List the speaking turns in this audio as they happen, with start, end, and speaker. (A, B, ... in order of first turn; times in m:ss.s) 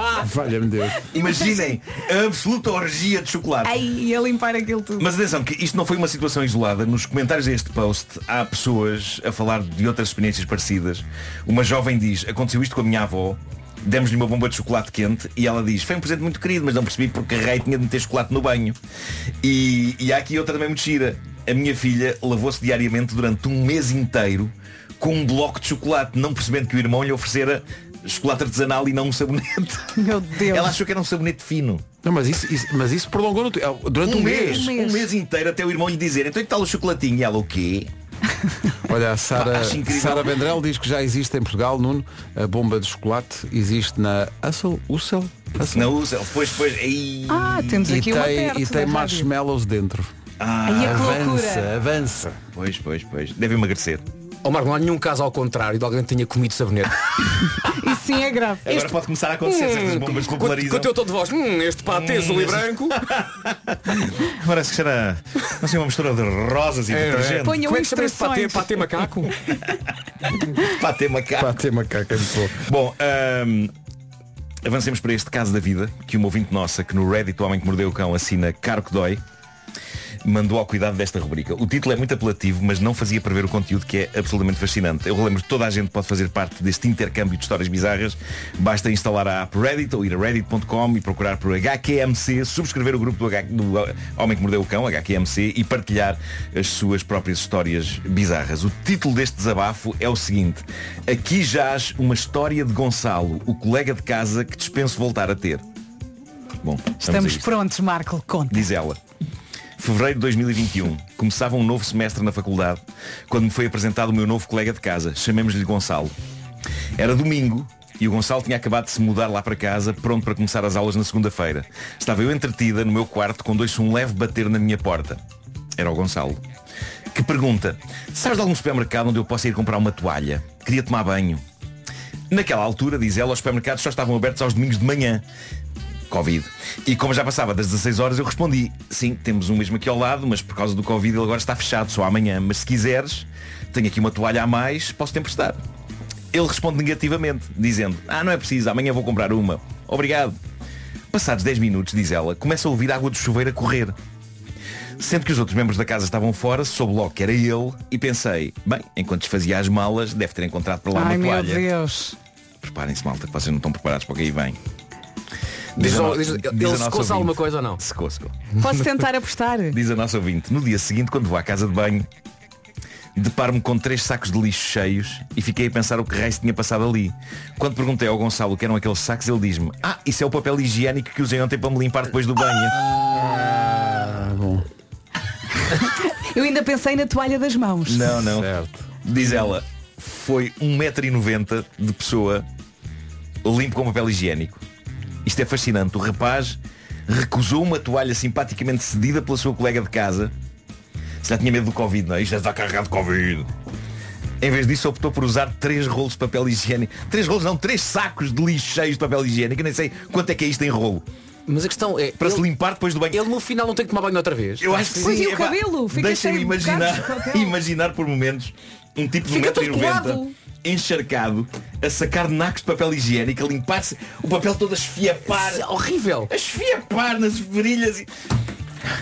0:00.1-0:01.1 A
0:01.1-0:03.8 B
0:01.2-0:01.8 C
0:03.6-0:05.1 C
0:05.0-0:18.8 B
0:19.4-0:31.8 B
0:30.0-0:30.8 C
0:32.0-0:34.7 A
0:34.0-0:37.9 B
0:34.4-0:35.1 C
0:38.9-0:45.9 A
0:39.4-0:40.4 B
0:45.7-0:47.9 B
0:47.3-0:49.3 C
0:47.8-0:50.1 A
0:50.4-0:51.2 B
0:50.7-0:51.7 C
0:50.8-0:52.4 A
0:52.5-0:54.0 B
0:54.4-0:57.0 D
0:57.7-0:58.8 C
0:58.6-1:00.9 B
0:59.4-1:03.0 D
1:01.9-1:07.6 B
1:06.9-1:09.3 D
1:07.4-1:08.9 C
1:10.6-1:11.6 B
1:11.4-1:12.6 A
1:12.6-1:13.7 B
1:14.6-1:19.2 B
1:20.2-1:45.6 B
1:46.6-1:47.5 B
1:47.0-1:48.7 C
1:48.5-1:49.0 B
1:49.8-1:56.1 B
1:57.0-2:05.2 B
2:05.8-2:06.4 B
2:07.1-2:11.4 B
2:12.3-2:15.2 B
2:16.1-2:25.6 B
2:26.3-2:30.4 B
2:31.1-2:34.0 B
2:35.0-2:41.7 B
2:40.9-2:42.2 C
2:42.6-2:44.6 B
2:45.8-2:47.8 D
2:45.8-2:48.5 B
2:48.6-2:49.8 C
2:49.7-2:52.1 B
2:53.2-3:02.8 B
3:03.1-3:04.6 A
3:06.3-3:08.2 C
3:07.9-3:08.5 B
3:08.3-3:08.9 A
3:09.0-3:12.4 B
3:13.4-3:14.6 B
3:15.2-3:20.3 B
3:21.2-3:23.5 B
3:24.4-3:31.0 B
3:31.5-3:32.5 D
3:32.2-3:33.2 B
3:33.1-3:35.1 D
3:34.6-3:45.7 B
3:34.9-3:37.6 C
3:39.3-3:40.1 D
3:39.4-3:40.3 C
3:45.3-3:46.3 D
3:46.3-3:48.1 B